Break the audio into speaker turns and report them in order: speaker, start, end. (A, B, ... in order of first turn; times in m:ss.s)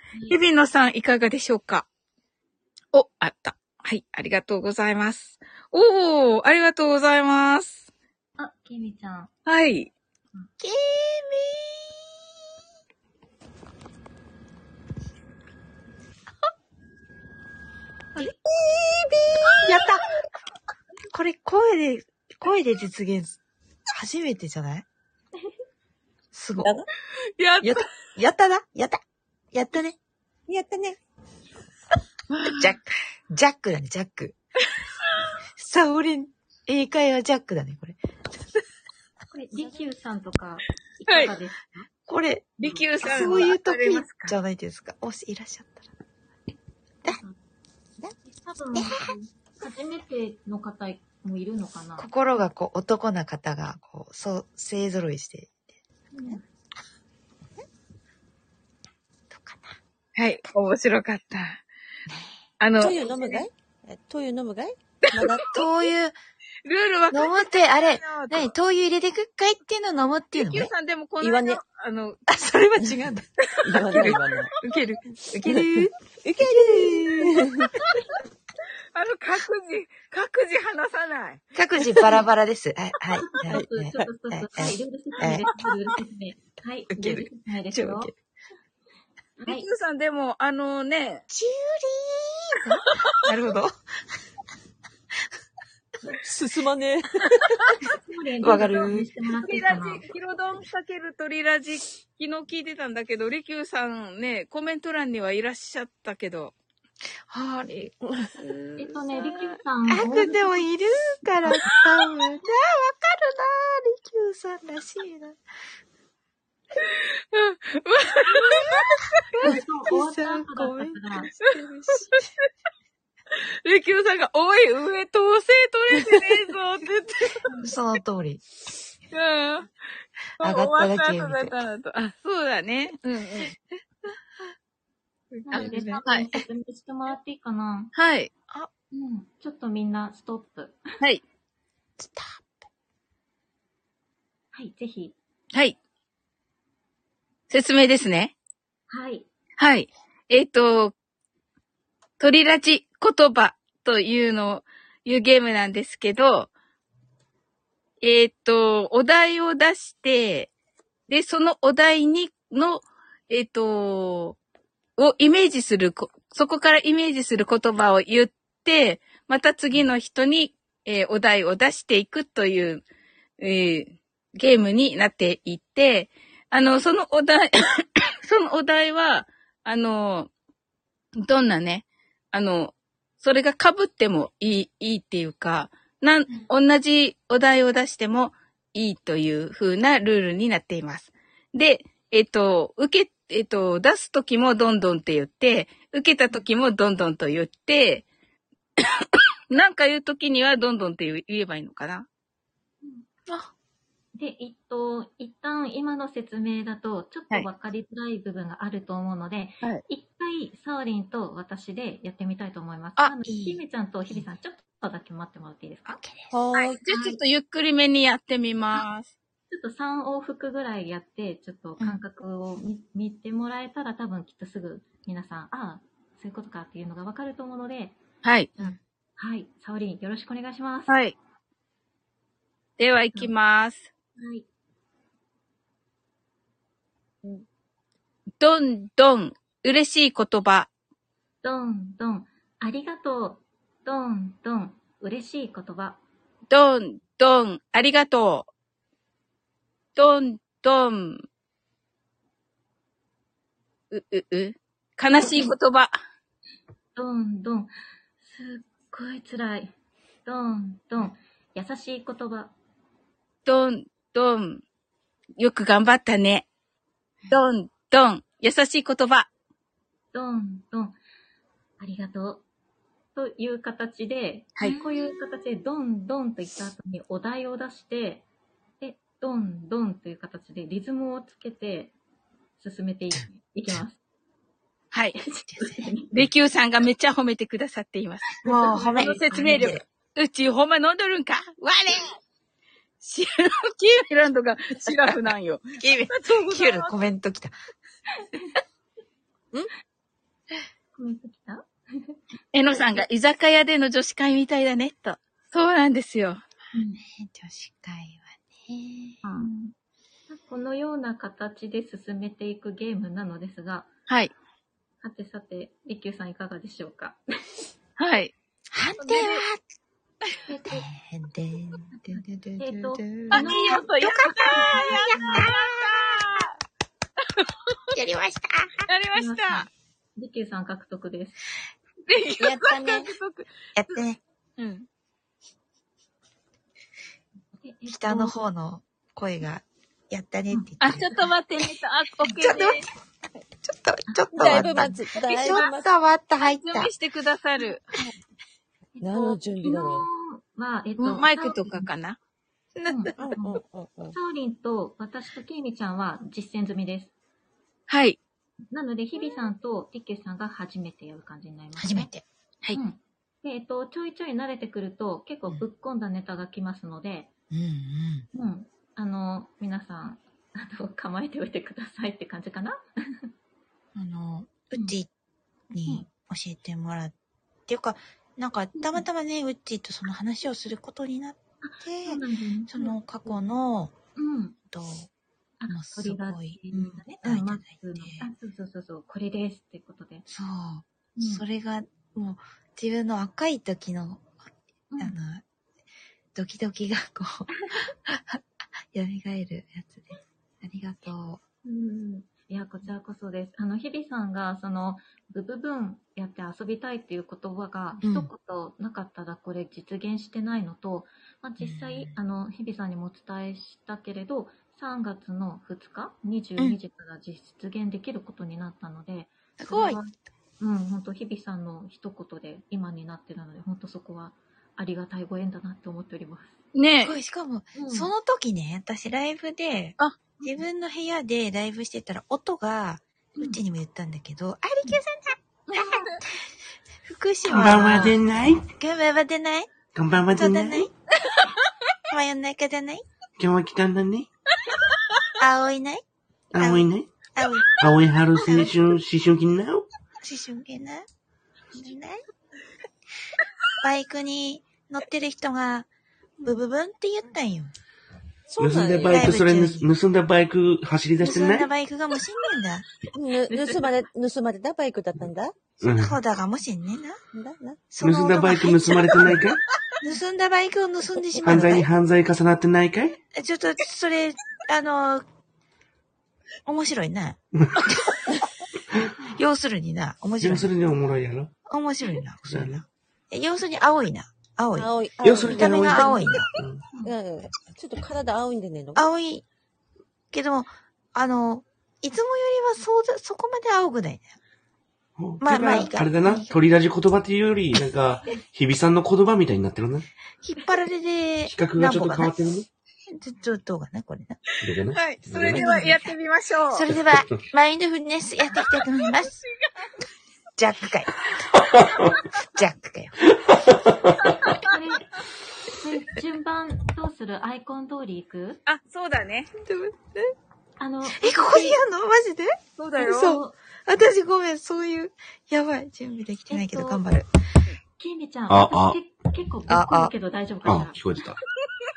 0:00.1-0:00.4 A
0:00.3-0:01.8 B
0:02.9-0:07.8 B
0:08.4-0:09.3 A
0:09.4-0:09.9 B
0:10.6-0:11.8 C
0:19.6-0:20.1 C
0:21.1-0:23.4 C
0:23.9-0:24.8 C
0:26.3-0:26.7 C
0:27.4-0:27.8 B
0:27.6-0:29.0 C
0:29.5-0:30.0 C
0:30.5-0:31.0 D
0:32.3-0:32.8 B
0:32.5-0:34.4 C
0:35.6-0:38.0 C
0:39.3-0:41.9 A
0:41.1-0:41.3 B
0:42.1-0:45.9 C
0:42.6-0:44.4 B
0:42.6-0:42.8 A
0:47.0-0:47.4 A
0:48.2-0:52.1 A
0:48.7-0:49.0 C
0:52.0-0:55.7 C
0:56.1-0:56.4 A
0:59.3-0:59.8 C
1:00.2-1:01.6 B
1:02.1-1:02.4 C
1:02.6-1:03.4 B
1:02.8-1:05.5 D
1:05.1-1:05.7 B
1:05.4-1:06.1 C
1:06.6-1:08.5 B
1:07.1-1:10.7 C
1:10.3-1:12.2 B
1:11.2-1:11.6 D
1:12.3-1:13.3 C
1:13.5-1:15.9 B
1:13.6-1:14.6 D
1:15.4-1:17.8 D
1:16.4-1:17.2 C
1:18.9-1:21.4 B
1:21.5-1:25.5 C
1:23.2-1:28.1 A
1:23.5-1:24.1 D
1:26.9-1:28.1 C
1:29.4-1:29.7 A
1:29.4-1:31.2 B
1:31.3-1:33.7 C
1:36.2-1:37.7 D
1:37.8-1:40.0 A
1:38.4-1:39.1 C
1:39.4-1:46.5 B
1:47.3-1:48.8 C
1:48.8-1:50.6 A
1:49.9-1:55.4 C
1:51.7-1:52.0 B
1:56.8-1:59.5 B
1:59.4-2:02.2 C
1:59.4-2:01.3 A
2:01.4-2:02.2 B
2:03.3-2:07.4 B
2:07.4-2:07.7 A
2:07.6-2:08.4 C
2:09.1-2:09.7 B
2:10.4-2:13.5 B
2:10.4-2:11.5 C
2:15.3-2:16.4 C
2:15.5-2:17.9 A
2:15.5-2:16.3 B
2:17.9-2:18.3 B
2:18.9-2:20.8 A
2:22.0-2:22.4 C
2:24.5-2:25.2 A
2:25.5-2:25.8 B
2:27.5-2:28.3 B
2:28.9-2:29.3 A
2:29.6-2:30.9 B
2:32.2-2:36.5 B
2:38.0-2:40.5 B
2:41.1-2:44.4 B
2:45.0-2:52.8 B
2:53.4-3:00.3 B
3:01.2-3:18.0 B
3:18.8-3:22.0 B
3:24.1-3:35.9 A
3:33.2-3:34.2 C
3:35.8-3:36.4 C
3:36.3-3:36.8 D
3:36.6-3:39.1 B
3:36.9-3:37.2 A
3:39.5-3:48.0 A
3:48.2-3:48.5 B
3:48.6-3:51.0 A
3:50.9-3:51.1 B
3:52.8-3:53.9 B
3:54.2-3:54.4 A
3:58.4-4:00.7 B
4:01.4-4:06.0 A
4:06.5-4:08.5 B
4:10.0-4:11.2 B
4:13.9-4:15.9 B
4:15.2-4:15.5 A
4:16.9-4:19.7 A
4:20.2-4:22.5 A
4:23.4-4:24.6 B
4:25.4-4:26.5 B
4:27.3-4:29.3 B
4:30.1-4:31.0 A
4:31.8-4:32.4 A
4:33.1-4:38.2 A
4:38.8-4:41.9 A
4:42.6-4:44.0 A
4:44.9-4:45.2 B
4:45.2-4:46.1 A
4:45.5-4:45.9 C
4:46.1-4:52.2 B
4:48.4-4:49.8 C
4:48.4-4:49.8 A
4:53.0-4:57.0 B
4:55.8-4:57.5 C
5:00.9-5:02.2 A
5:02.5-5:06.4 B
5:06.7-5:07.0 A
5:07.0-5:09.2 C
5:09.3-5:09.7 A
5:10.3-5:13.9 A
5:14.1-5:14.3 B
5:15.0-5:17.2 A
5:18.0-5:18.3 B
5:18.7-5:19.6 C
5:19.0-5:19.4 B
5:20.5-5:20.8 A
5:20.6-5:25.5 C
5:21.9-5:25.5 A
5:23.3-5:26.5 B
5:27.2-5:27.5 B
5:27.9-5:28.9 C
5:28.9-5:29.7 B
5:29.1-5:31.4 A
5:32.1-5:34.0 B
5:33.8-5:34.2 C
5:34.6-5:34.9 B
5:37.6-5:38.4 A
5:37.9-5:41.1 C
5:40.5-5:41.2 A
5:40.8-5:42.9 B
5:42.3-5:42.8 C
5:43.6-5:46.9 C
5:44.3-5:45.9 D
5:45.2-5:45.7 B
5:46.4-5:47.8 B
5:49.0-5:51.8 A
5:49.0-5:50.1 D
5:51.0-5:52.2 B
5:52.8-5:53.1 C
5:52.9-5:53.6 A
5:53.2-5:54.2 D
5:54.1-5:57.1 A
5:57.9-5:58.2 B
5:58.7-6:02.1 A
6:01.8-6:02.2 C
6:02.7-6:07.3 A
6:07.5-6:08.3 C
6:08.3-6:13.3 A
6:13.9-6:15.1 C
6:15.7-6:17.1 C
6:17.7-6:23.9 C
6:18.8-6:19.0 A
6:21.6-6:23.0 A
6:24.2-6:24.6 A
6:24.7-6:25.1 C
6:25.6-6:30.2 A
6:25.7-6:28.3 C
6:30.3-6:34.3 C
6:31.2-6:31.4 A
6:34.9-6:35.2 A
6:35.0-6:35.4 C
6:36.3-6:41.4 C
6:41.6-7:06.6 A
6:48.0-6:48.3 C
6:51.6-6:52.1 C
6:59.6-7:00.0 C
7:06.7-7:07.2 B
7:07.0-7:16.4 C
7:07.8-7:08.1 A
7:15.7-7:16.2 B
7:17.0-7:19.8 C
7:17.4-7:18.7 E
7:19.9-7:20.9 E
7:20.4-7:20.9 C
7:22.1-7:23.0 C
7:23.4-7:24.3 E
7:24.7-7:25.2 B
7:25.4-7:26.0 C
7:26.5-7:27.1 E
7:26.6-7:27.8 C
7:27.7-7:29.9 E
7:28.4-7:28.8 C
7:30.2-7:31.0 C
7:31.7-7:32.2 C
7:33.8-7:35.9 C
7:36.4-7:37.7 C
7:38.5-7:39.2 D
7:38.6-7:41.7 E
7:39.0-7:39.9 C
7:41.2-7:42.9 C
7:43.1-7:45.5 D
7:43.5-7:43.8 A
7:45.8-7:46.2 E
7:45.8-7:47.2 C
7:47.3-7:47.8 D
7:47.9-7:49.4 C
7:48.0-7:49.6 E
7:50.0-7:51.9 C
7:51.4-7:53.2 E
7:53.3-7:55.2 C
7:56.6-7:57.4 C
7:59.2-8:00.7 C
8:00.4-8:01.5 E
8:01.7-8:02.7 C
8:02.4-8:02.8 E
8:03.3-8:04.9 C
8:04.7-8:06.4 D
8:05.2-8:06.8 E
8:05.5-8:06.5 C
8:07.0-8:09.1 D
8:09.0-8:09.4 C
8:10.3-8:14.3 C
8:15.2-8:20.1 E
8:15.4-8:16.6 C
8:20.4-8:22.3 C
8:21.5-8:22.7 E
8:23.1-8:24.4 C
8:24.6-8:25.9 E
8:24.9-8:26.9 B
8:25.3-8:26.1 C
8:26.7-8:29.4 C
8:29.0-8:29.9 B
8:30.6-8:31.4 C
8:32.1-8:32.4 B
8:32.4-8:33.3 C
8:33.5-8:34.1 E
8:34.2-8:34.8 B
8:34.6-8:35.1 A
8:35.6-8:38.6 A
8:38.6-8:39.5 B
8:39.6-8:40.3 C
8:40.8-8:41.8 A
8:41.1-8:47.3 C
8:42.8-8:43.4 B
8:43.1-8:43.5 A
8:46.5-8:47.1 A
8:48.0-8:51.0 A
8:48.5-8:49.0 E
8:49.7-8:50.1 C
8:50.6-8:51.4 E